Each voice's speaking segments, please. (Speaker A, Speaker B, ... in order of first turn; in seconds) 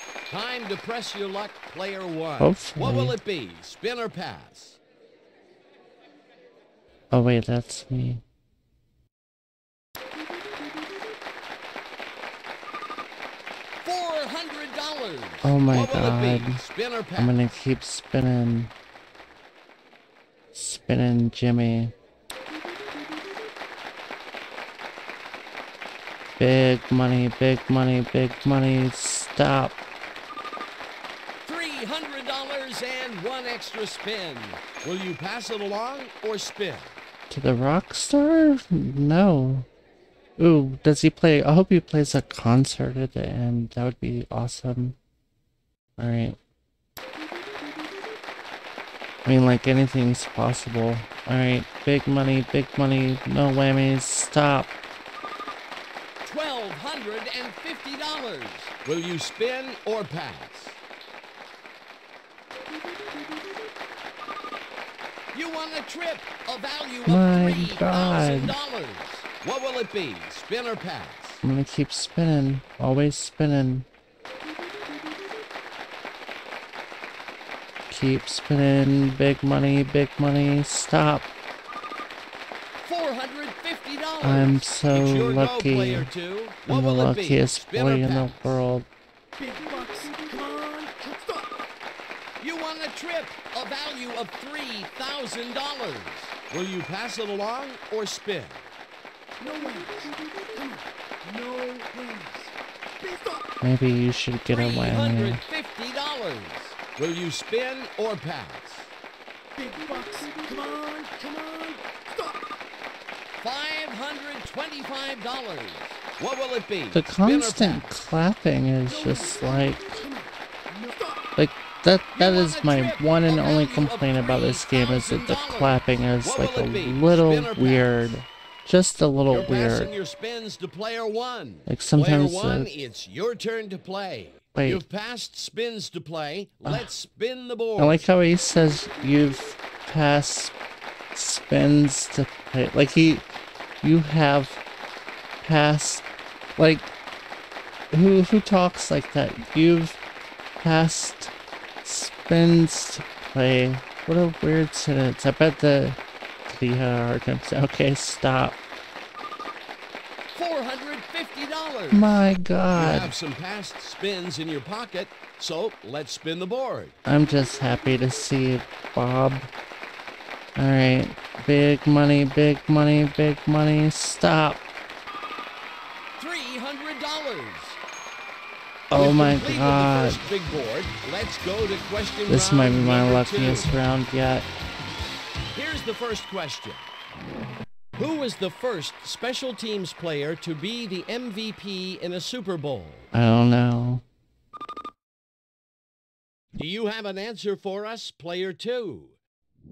Speaker A: 0.3-4.8, 13.8-17.4, 31.4-37.0, 56.2-60.8, 65.3-71.5, 82.8-88.6, 92.4-98.7, 104.5-108.9, 113.4-117.9, 122.1-128.1, 129.3-138.0, 160.3-162.2, 162.7-166.9, 176.2-177.8, 178.9-183.7, 185.5-186.9, 187.9-193.1, 196.6-199.1
Speaker B: 2.4-3.1, 7.1-8.2, 15.4-16.6, 17.2-18.7, 20.5-21.9, 26.4-29.8, 37.3-39.7, 40.4-45.0, 46.0-46.4, 49.2-54.7, 67.1-68.6, 71.4-73.9, 77.9-81.3, 84.2-86.1, 86.7-88.9, 103.6-105.4, 116.9-120.0, 121.4-129.9, 131.7-132.7, 134.5-134.8, 136.6-136.9, 137.8-140.5, 141.1-144.6, 145.4-146.1, 146.6-146.9, 147.9-150.0, 150.6-151.3, 151.8-156.0, 156.5-158.6, 161.9-163.1, 167.1-169.5, 170.6-174.6, 178.9-180.2, 182.3-184.5, 193.1-194.0
Speaker C: 89.4-91.7, 99.4-103.5, 109.6-112.6, 118.9-121.3